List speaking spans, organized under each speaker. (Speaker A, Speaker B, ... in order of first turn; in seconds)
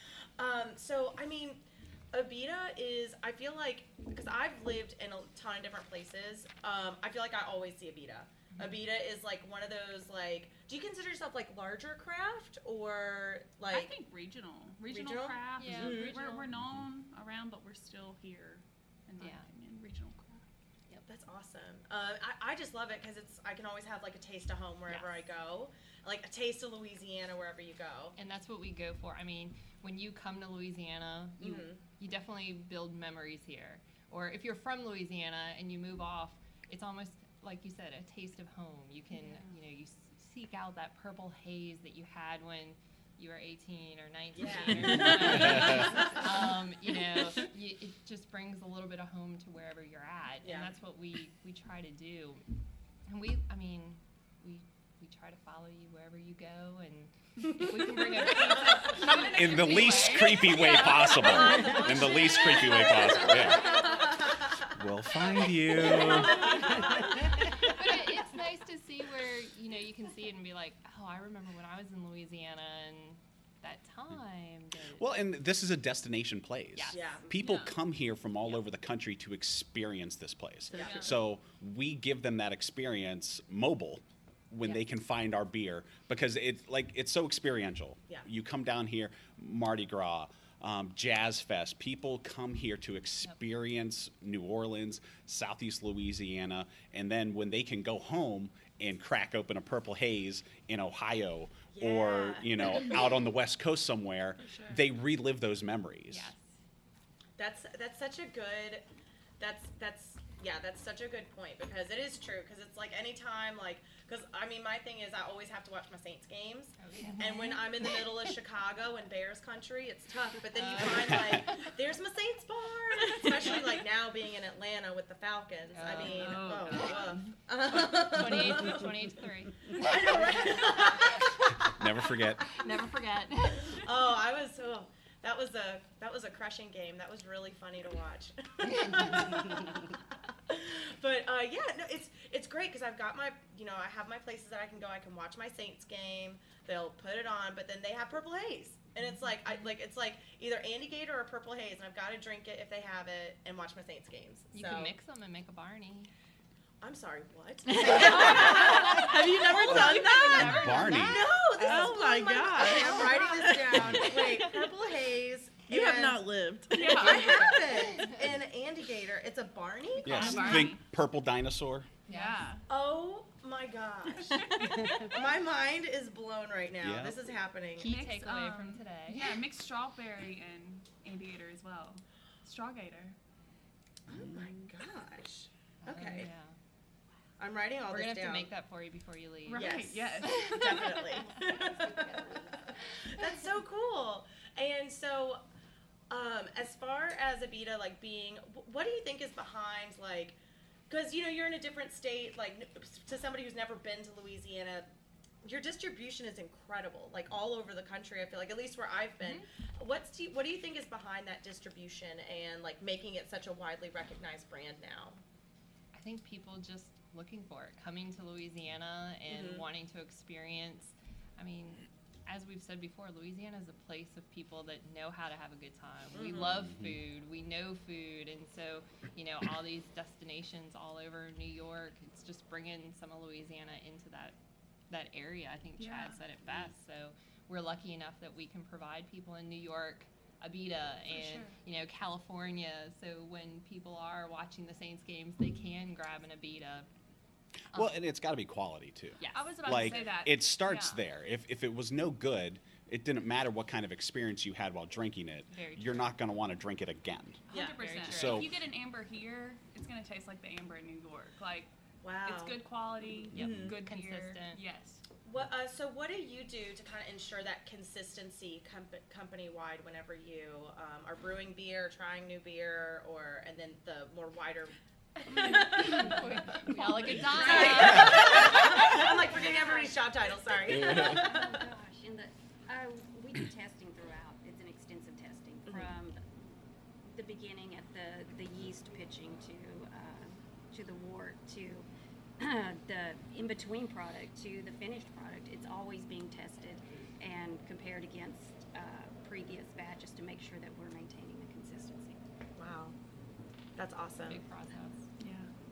Speaker A: 0.4-14.0, 14.8-16.2, 21.1-28.1, 31.4-31.8, 44.3-46.5, 50.4-50.7, 61.4-64.7, 65.7-67.0, 76.9-77.3, 80.7-81.1, 101.7-103.1, 107.4-108.8, 109.4-128.8, 129.8-131.7, 133.6-139.7, 140.5-154.9, 156.8-166.2, 166.8-170.7, 172.7-177.9, 184.1-186.3, 187.4-188.5, 189.5-195.4, 196.1-200.4, 200.9-204.9, 205.4-215.2, 219.3-219.6, 226.1-226.6, 257.5-257.8, 262.0-262.6, 263.3-263.8, 265.2-274.7, 275.3-276.1, 277.3-281.6, 285.7-285.9, 302.6-302.9, 303.8-304.4
Speaker B: 8.5-8.8, 15.6-16.5, 19.2-19.4, 24.9-25.2, 28.1-52.4, 53.1-59.8, 67.6-75.1, 76.7-77.1, 106.1-106.5, 116.8-117.5, 120.6-121.3, 125.7-127.0, 128.0-130.3, 154.5-156.1, 158.2-158.8, 159.5-161.2, 172.1-172.4, 177.8-179.4, 185.8-186.6, 187.9-189.7, 215.9-234.4, 234.9-246.9, 249.2-250.0, 255.5-256.1, 257.8-258.5, 263.3-264.6, 275.8-278.6, 304.2-305.0
Speaker C: 13.6-20.4, 45.1-45.7, 58.2-64.0, 66.1-66.5, 77.3-77.7, 80.8-81.0, 104.4-104.8, 117.0-117.4, 125.9-127.2, 128.3-128.8, 166.7-167.5, 170.1-170.8, 172.1-172.6, 174.4-174.8, 177.8-183.2, 189.4-191.2, 235.8-236.2, 241.0-241.6, 249.2-251.1, 257.5-265.0, 275.3-278.9, 305.2-305.5
Speaker D: 16.6-16.9, 45.4-45.6, 59.1-63.7, 64.7-66.7, 75.0-106.3, 131.7-132.4, 159.6-161.2, 163.8-164.0, 170.0-172.0, 176.8-177.1, 226.5-226.9, 236.4-236.7, 247.7-257.4, 258.1-258.5, 280.8-281.1
Speaker E: 80.7-81.0, 161.6-164.4, 165.7-167.6
Speaker F: 191.3-192.5, 279.3-286.2, 287.0-291.9, 292.4-302.2